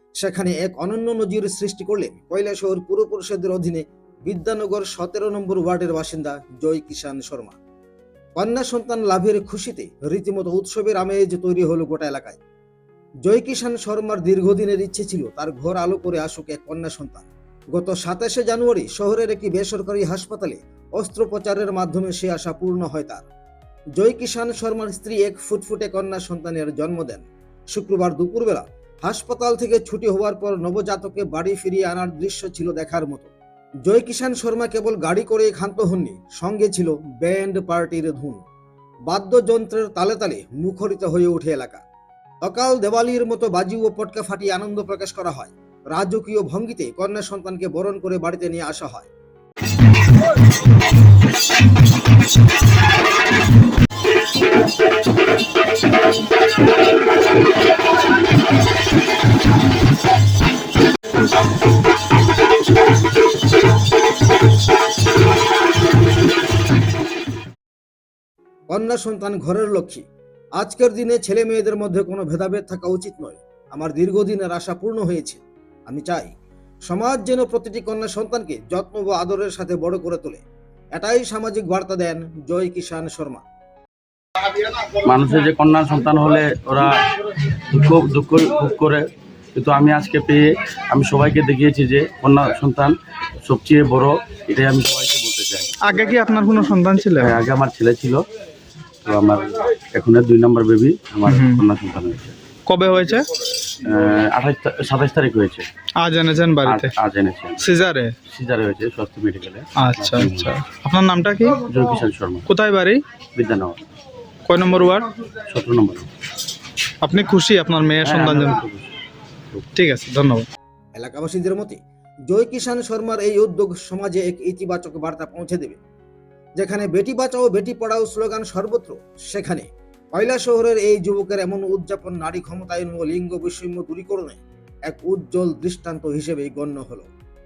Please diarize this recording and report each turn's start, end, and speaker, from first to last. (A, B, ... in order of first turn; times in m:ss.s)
0:00.2-0:07.6 A
0:08.4-0:12.4 A
0:13.2-0:23.2 A
0:24.0-0:33.3 A
0:33.8-0:38.4 A
0:39.1-0:41.8 A
0:42.4-0:49.1 A
1:08.7-1:10.0 A
1:10.6-1:16.3 A
1:16.9-1:20.4 A
1:21.0-1:23.4 A
1:24.8-1:26.9 B
1:27.5-1:36.0 B
1:35.8-1:37.4 C
1:37.1-1:38.2 B
1:39.0-1:42.4 B
1:41.3-1:41.6 C
1:42.7-1:43.3 C
1:43.8-1:45.6 B
1:46.0-1:46.9 C
1:46.6-1:47.6 B
1:47.6-1:48.1 C
1:48.3-1:50.5 B
1:49.8-1:51.6 C
1:51.6-1:52.5 B
1:52.5-1:53.0 C
1:53.3-1:53.8 B
1:54.5-1:55.1 C
1:55.4-1:56.1 B
1:57.0-1:58.6 C
1:58.0-1:58.9 B
1:59.8-2:00.4 C
2:00.9-2:05.8 A
2:06.6-2:17.1 A